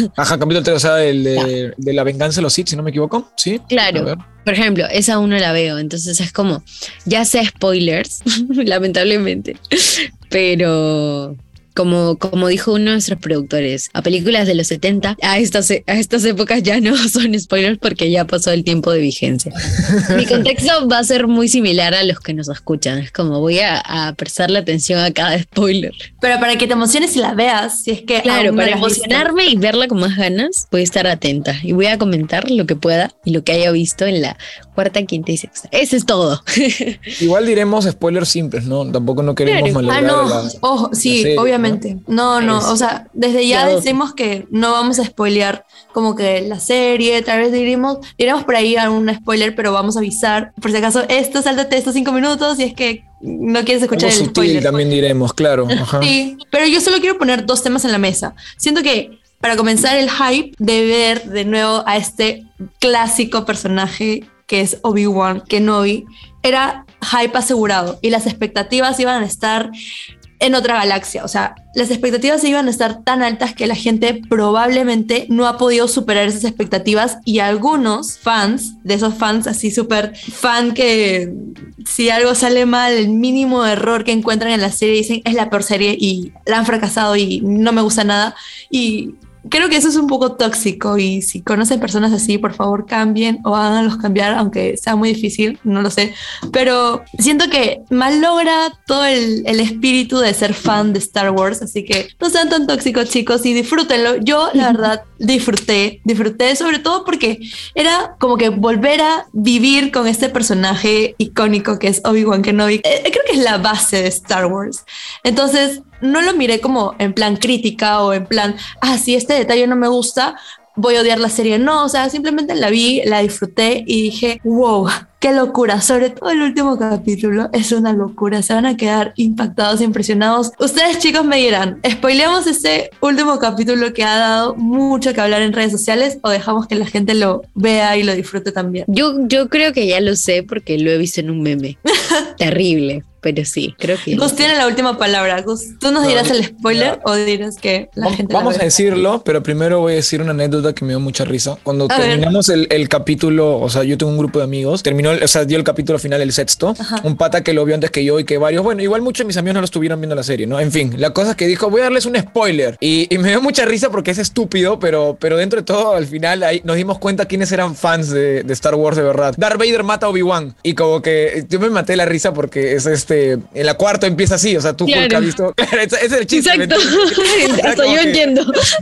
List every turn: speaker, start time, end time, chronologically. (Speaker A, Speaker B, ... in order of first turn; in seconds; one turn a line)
Speaker A: 0.2-4.2
Speaker B: 3.7-25.9
Speaker C: 26.2-29.3
Speaker B: 28.2-37.1
Speaker A: 37.2-41.8
Speaker B: 39.5-39.8
Speaker C: 39.8-54.8
Speaker A: 42.4-42.7
Speaker B: 43.5-43.9
Speaker A: 53.9-56.1
Speaker C: 55.7-69.7
Speaker C: 70.4-81.3
Speaker C: 81.9-138.9
Speaker B: 138.9-141.8
Speaker B: 142.4-144.5
Speaker C: 144.1-148.7
Speaker A: 146.0-147.0
Speaker A: 148.0-178.3
Speaker C: 151.9-152.3
Speaker C: 156.8-157.1
Speaker B: 174.9-175.3
Speaker B: 176.3-178.6